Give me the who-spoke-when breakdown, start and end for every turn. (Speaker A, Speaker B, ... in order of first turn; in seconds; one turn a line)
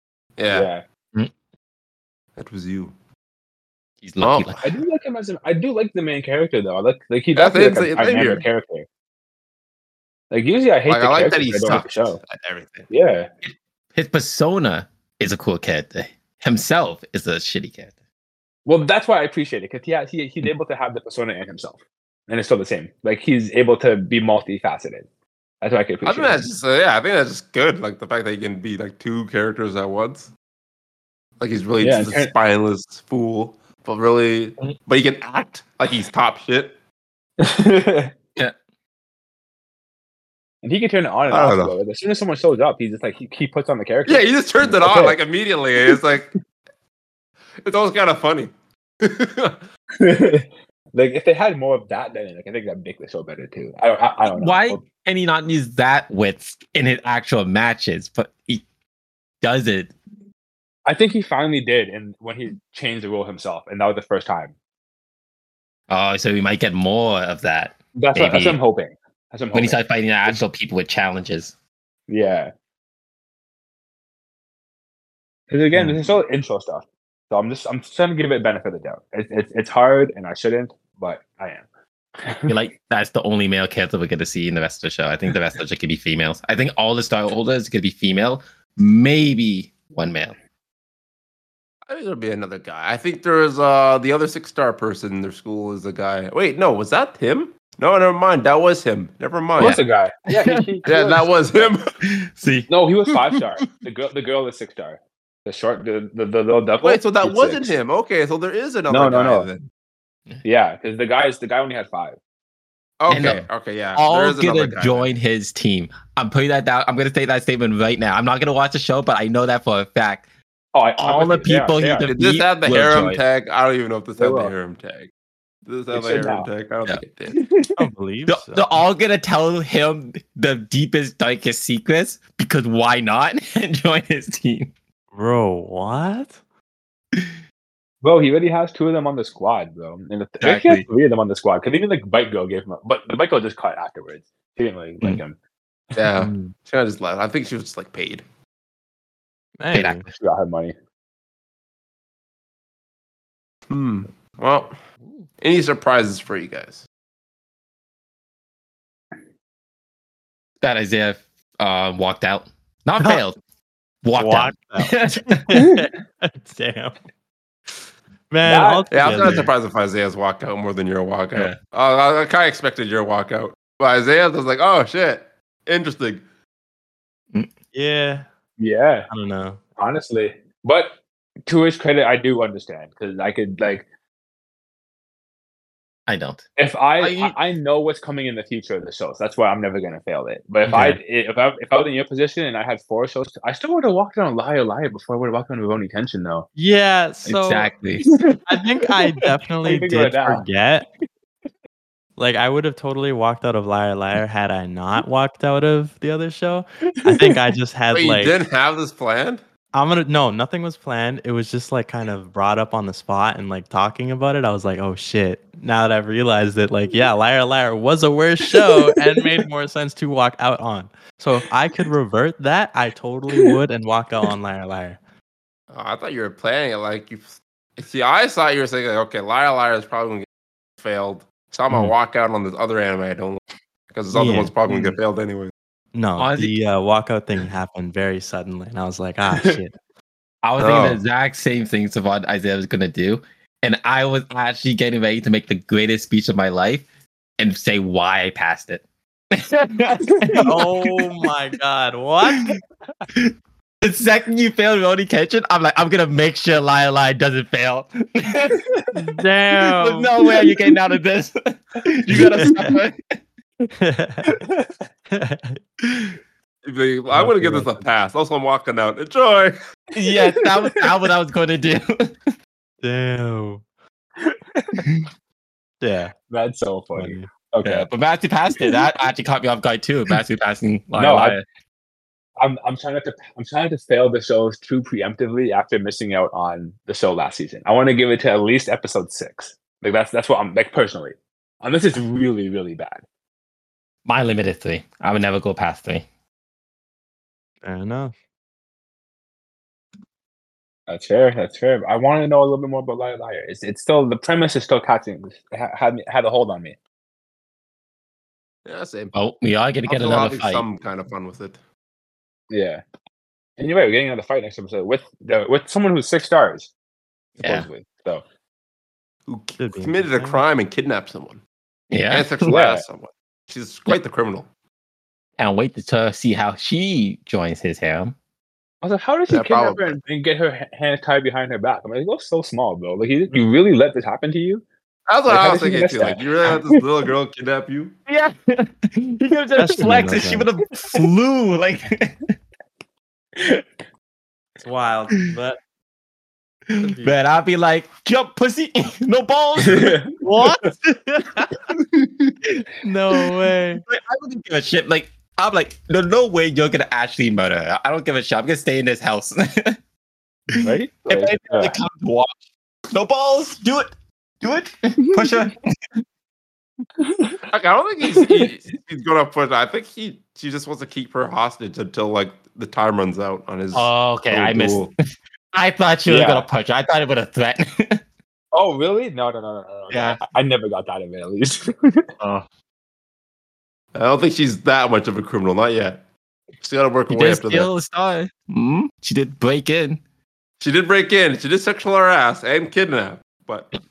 Speaker A: 0.4-0.7
Speaker B: 0.5-0.8
Speaker A: 2.4-2.9
Speaker C: 4.0-4.6
Speaker A: 4.2-4.7
Speaker B: 4.6-8.9
Speaker A: 7.3-8.5
Speaker B: 10.3-12.2
Speaker A: 10.9-12.9
Speaker B: 12.9-13.3
Speaker C: 13.4-17.9
Speaker B: 18.6-25.1
Speaker B: 25.6-26.5
Speaker A: 26.1-30.3
Speaker A: 31.4-36.8
Speaker B: 31.8-32.3
Speaker B: 37.4-38.1
Speaker B: 40.6-45.2
Speaker A: 41.3-41.7
Speaker A: 44.1-46.3
Speaker A: 47.6-48.5
Speaker A: 49.0-49.6
Speaker B: 50.0-54.8
Speaker C: 54.3-58.6
Speaker C: 59.4-59.9
Speaker B: 60.9-64.5
Speaker C: 65.9-68.6
Speaker B: 68.0-69.8
Speaker C: 69.5-71.5
Speaker B: 72.1-72.5
Speaker B: 75.5-81.7
Speaker D: 75.7-76.0
Speaker B: 82.2-82.6
Speaker C: 82.5-90.3
Speaker A: 91.9-99.8
Speaker C: 99.6-99.8
Speaker B: 99.6-101.8
Speaker C: 100.3-100.6
Speaker A: 100.9-101.9
Speaker C: 102.0-102.7
Speaker B: 102.7-107.8
Speaker A: 106.8-109.6
Speaker B: 108.9-109.5
Speaker B: 110.4-112.2
Speaker A: 113.0-115.1
Speaker C: 113.1-113.5
Speaker C: 114.0-120.3
Speaker B: 120.7-122.1
Speaker C: 121.0-123.2
Speaker A: 122.1-125.1
Speaker B: 124.2-124.5
Speaker A: 125.7-127.4
Speaker B: 125.9-126.5
Speaker D: 127.8-128.7
Speaker C: 128.3-134.7
Speaker D: 135.1-136.4
Speaker B: 138.0-145.4
Speaker C: 140.4-140.9
Speaker A: 145.9-148.2
Speaker D: 146.2-146.5
Speaker D: 149.6-150.1
Speaker C: 149.7-150.1
Speaker B: 150.1-150.7
Speaker A: 153.7-154.7
Speaker A: 155.4-156.9
Speaker C: 160.6-163.4
Speaker C: 164.0-165.4
Speaker D: 164.2-166.9
Speaker D: 168.3-169.5
Speaker B: 168.4-169.4
Speaker A: 168.9-176.2
Speaker D: 177.7-178.3
Speaker B: 178.6-179.1
Speaker D: 179.1-179.6
Speaker B: 179.8-180.9
Speaker B: 181.5-183.9
Speaker C: 186.1-186.4
Speaker B: 186.6-196.5
Speaker C: 187.0-187.3
Speaker D: 190.7-191.0
Speaker D: 196.6-197.7
Speaker C: 197.3-198.1
Speaker B: 198.0-200.4
Speaker D: 198.5-200.9
Speaker D: 202.2-208.3
Speaker B: 207.1-207.4
Speaker A: 207.9-209.4
Speaker D: 209.7-225.0
Speaker A: 225.7-230.3
Speaker A: 230.8-235.5
Speaker D: 234.1-234.5
Speaker B: 234.7-235.0
Speaker D: 235.9-239.8
Speaker C: 236.2-236.6
Speaker B: 239.3-239.6
Speaker C: 240.4-246.9
Speaker A: 240.6-241.0
Speaker C: 247.4-250.9
Speaker D: 250.4-252.5
Speaker C: 253.8-258.6
Speaker D: 258.9-260.1
Speaker C: 259.5-263.2
Speaker D: 262.1-262.8
Speaker D: 263.8-264.4
Speaker B: 264.4-264.7
Speaker D: 265.1-266.1
Speaker A: 266.6-269.6
Speaker D: 267.1-267.8
Speaker C: 269.9-272.3
Speaker B: 270.0-270.8
Speaker D: 272.8-273.6
Speaker B: 274.2-274.9
Speaker D: 275.8-276.1
Speaker B: 276.3-277.9
Speaker D: 277.0-277.3
Speaker C: 277.6-281.4
Speaker B: 281.0-281.4
Speaker B: 282.4-293.0
Speaker C: 294.1-296.1
Speaker D: 297.6-298.1
Speaker B: 300.9-306.8
Speaker A: 308.7-309.1
Speaker C: 309.1-310.7
Speaker A: 309.9-311.6
Speaker B: 312.5-312.8
Speaker B: 313.6-316.7
Speaker C: 317.4-317.7
Speaker B: 317.4-318.2
Speaker A: 319.3-321.4
Speaker D: 319.6-320.4
Speaker C: 321.9-322.6
Speaker A: 322.1-324.5
Speaker B: 322.5-322.8
Speaker C: 325.4-328.2
Speaker B: 328.8-334.6
Speaker A: 329.3-330.0
Speaker A: 335.1-337.9
Speaker B: 335.3-336.8
Speaker C: 338.1-342.2
Speaker D: 339.6-340.5
Speaker B: 343.4-343.7
Speaker D: 344.6-345.6
Speaker C: 346.7-350.0
Speaker D: 346.8-347.1
Speaker B: 349.6-350.1
Speaker D: 350.2-351.6
Speaker D: 352.8-353.8
Speaker C: 353.9-359.8
Speaker B: 360.6-361.7
Speaker C: 361.1-365.7
Speaker B: 367.0-367.4
Speaker A: 367.5-374.9
Speaker B: 368.0-368.5
Speaker C: 373.7-374.9
Speaker C: 375.5-378.0
Speaker B: 376.1-376.5
Speaker B: 378.5-382.1
Speaker C: 379.9-380.2
Speaker C: 382.2-382.5
Speaker A: 383.9-386.0
Speaker A: 386.6-387.7
Speaker C: 387.1-390.0
Speaker A: 390.6-393.8